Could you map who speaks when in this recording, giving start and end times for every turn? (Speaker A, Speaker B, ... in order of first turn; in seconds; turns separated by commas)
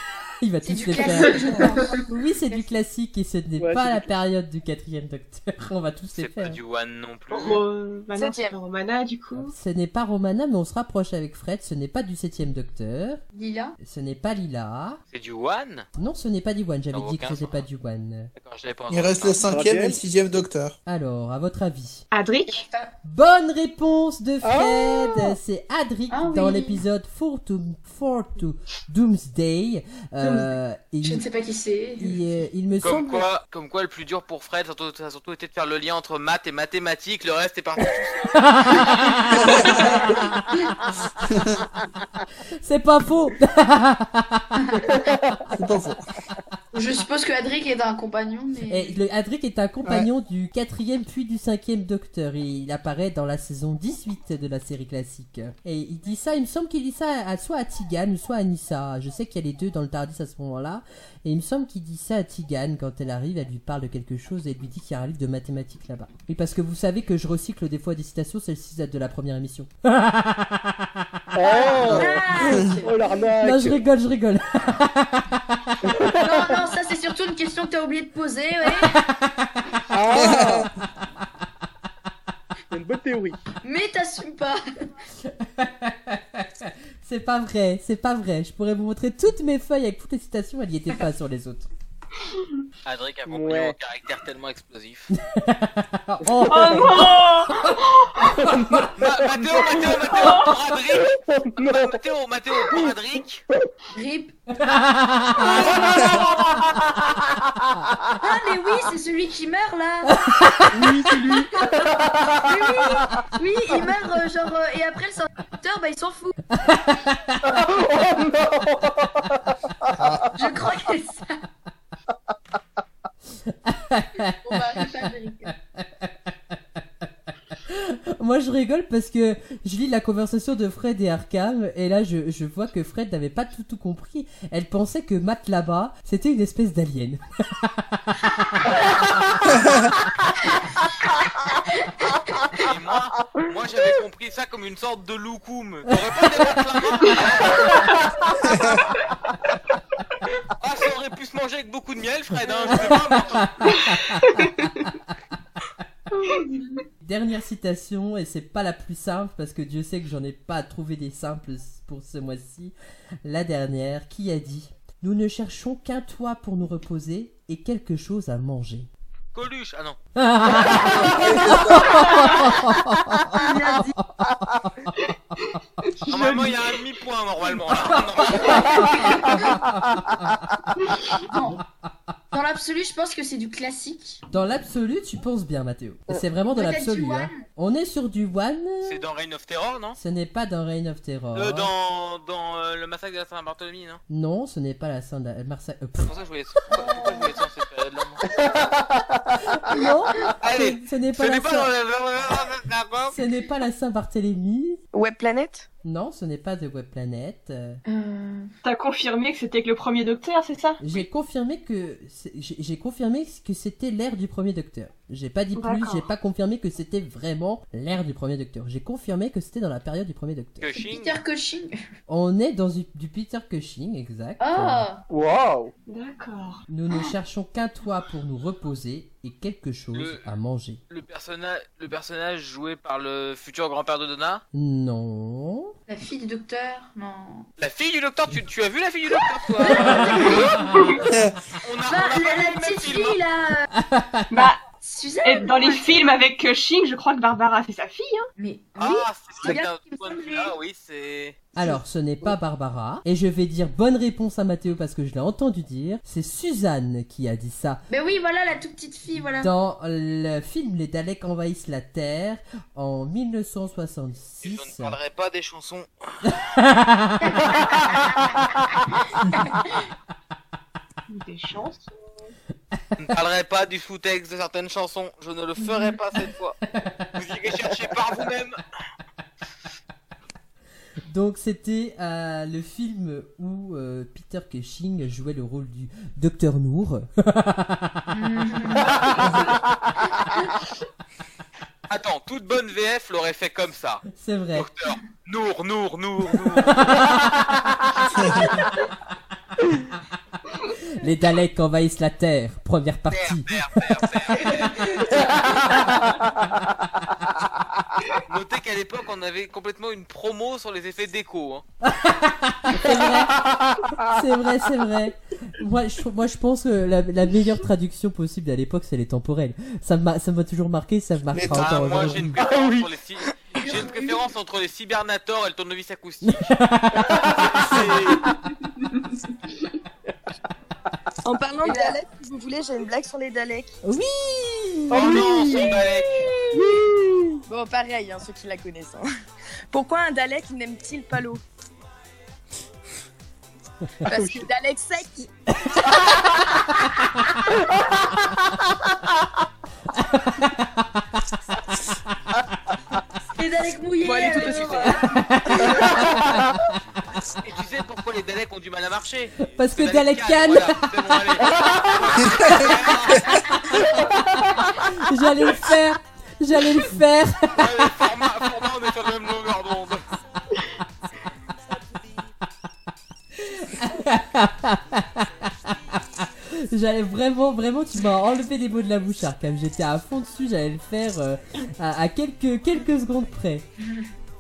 Speaker A: 0.4-6.6, Speaker B: 0.7-2.7, Speaker C: 3.6-4.1, Speaker D: 6.2-7.6, Speaker E: 7.3-9.5, Speaker F: 8.2-8.6, Speaker A: 9.3-13.2, Speaker B: 13.3-13.8, Speaker A: 13.8-15.0, Speaker D: 15.1-15.9, Speaker A: 16.0-18.3, Speaker D: 16.9-17.6, Speaker D: 18.4-19.6, Speaker G: 18.9-20.8, Speaker C: 19.5-20.0, Speaker A: 20.9-22.1, Speaker E: 22.1-22.7, Speaker B: 22.5-22.9, Speaker A: 23.0-31.2, Speaker C: 24.4-25.3, Speaker B: 26.1-26.8, Speaker B: 31.0-32.2, Speaker A: 32.0-33.3, Speaker D: 32.8-40.0, Speaker A: 38.5-40.7, Speaker G: 39.6-40.0, Speaker G: 41.4-41.6, Speaker A: 42.6-44.7, Speaker B: 44.7-45.0, Speaker G: 45.6-46.0, Speaker B: 46.7-49.0, Speaker A: 48.7-72.7, Speaker C: 71.3-73.8, Speaker B: 71.4-73.2, Speaker A: 73.3-75.9, Speaker C: 75.9-76.4, Speaker B: 76.0-79.0, Speaker A: 78.7-79.5, Speaker C: 79.9-80.7, Speaker G: 80.0-80.7, Speaker C: 82.7-83.4, Speaker B: 83.6-84.6, Speaker A: 85.2-91.7, Speaker D: 92.8-95.1, Speaker C: 93.3-93.8, Speaker A: 95.1-97.8, Speaker E: 96.4-98.3, Speaker C: 98.4-98.9, Speaker A: 98.4-98.9, Speaker D: 99.0-103.5, Speaker E: 100.1-100.5, Speaker C: 100.9-102.0, Speaker B: 103.9-104.4, Speaker A: 104.6-106.6, Speaker B: 105.4-106.3, Speaker C: 105.8-106.8, Speaker B: 108.2-110.7, Speaker A: 110.1-110.9, Speaker C: 110.7-113.0, Speaker B: 111.2-116.4, Speaker A: 116.6-117.5, Speaker C: 117.5-119.5, Speaker G: 120.0-120.3, Speaker B: 120.4-121.4, Speaker A: 123.5-126.8, Speaker B: 124.4-125.5, Speaker A: 127.7-139.1, Speaker D: 142.6-148.8, Speaker A: 146.1-146.8, Speaker D: 150.6-153.8, Speaker A: 152.7-154.9, Speaker E: 154.3-154.6, Speaker B: 156.2-156.8, Speaker A: 157.0-168.9, Speaker D: 169.3-170.0, Speaker A: 170.2-174.9, Speaker G: 170.8-172.1, Speaker B: 173.3-174.1, Speaker E: 175.9-176.8, Speaker D: 176.1-179.0, Speaker B: 178.3-179.6, Speaker A: 179.5-180.3, Speaker B: 181.2-181.6, Speaker B: 182.3-184.2, Speaker A: 184.3-189.1, Speaker B: 186.5-187.4, Speaker D: 188.8-190.0, Speaker A: 189.9-191.7, Speaker D: 191.3-194.0, Speaker A: 194.1-196.1, Speaker D: 196.0-198.2, Speaker B: 196.7-197.4, Speaker A: 199.5-201.7, Speaker D: 200.4-203.2, Speaker A: 203.1-204.8, Speaker F: 204.9-205.7, Speaker A: 205.8-207.8, Speaker E: 207.9-210.8, Speaker A: 210.8-220.7, Speaker E: 215.5-216.1, Speaker D: 220.6-221.2, Speaker B: 220.8-221.7, Speaker A: 222.1-224.9, Speaker B: 224.4-225.0, Speaker C: 225.1-225.7, Speaker E: 225.9-226.6, Speaker A: 226.7-230.8, Speaker D: 229.9-230.2, Speaker D: 230.9-234.4, Speaker A: 234.5-235.8, Speaker B: 235.9-237.5, Speaker D: 237.6-240.5, Speaker B: 239.6-240.7, Speaker G: 240.9-241.4, Speaker D: 241.6-243.2, Speaker B: 241.8-243.7, Speaker A: 243.8-244.5, Speaker E: 244.3-244.6, Speaker B: 244.8-246.1, Speaker E: 245.2-248.3, Speaker B: 248.4-250.5, Speaker D: 248.8-251.4, Speaker B: 251.6-251.8, Speaker A: 251.6-257.8, Speaker B: 257.9-259.5, Speaker A: 259.4-265.0, Speaker D: 264.4-266.2, Speaker A: 266.3-267.5, Speaker B: 267.2-268.3, Speaker B: 269.2-269.8, Speaker E: 271.1-272.3, Speaker D: 273.0-276.6, Speaker A: 276.7-277.1, Speaker D: 277.1-278.6, Speaker A: 281.1-288.2, Speaker B: 288.1-289.2, Speaker D: 291.9-297.3, Speaker A: 294.1-294.7, Speaker A: 296.6-297.9, Speaker G: 298.1-298.6, Speaker A: 301.0-303.8, Speaker D: 303.1-305.3, Speaker B: 304.4-305.1, Speaker A: 305.1-306.1, Speaker D: 308.3-311.6, Speaker A: 311.8-313.4, Speaker A: 314.1-322.3, Speaker G: 321.3-322.3, Speaker D: 321.5-326.6, Speaker C: 322.4-322.9, Speaker B: 323.6-324.2, Speaker A: 326.2-327.9, Speaker C: 327.1-327.8, Speaker D: 327.4-328.2, Speaker F: 331.2-333.8, Speaker B: 331.6-332.0, Speaker A: 333.8-335.3, Speaker D: 334.9-336.3, Speaker C: 334.9-335.7, Speaker C: 336.6-336.9, Speaker F: 337.5-339.1, Speaker F: 339.7-341.4, Speaker F: 344.1-345.3, Speaker C: 344.1-344.4, Speaker A: 345.6-346.3, Speaker A: 349.9-351.1, Speaker B: 353.4-356.2, Speaker F: 354.0-355.1, Speaker C: 354.2-354.8, Speaker A: 355.0-356.6, Speaker D: 357.4-363.8, Speaker A: 359.5-361.6, Speaker G: 362.1-363.3, Speaker A: 363.8-367.9, Speaker D: 367.5-370.1, Speaker A: 373.4-383.7, Speaker B: 383.8-384.1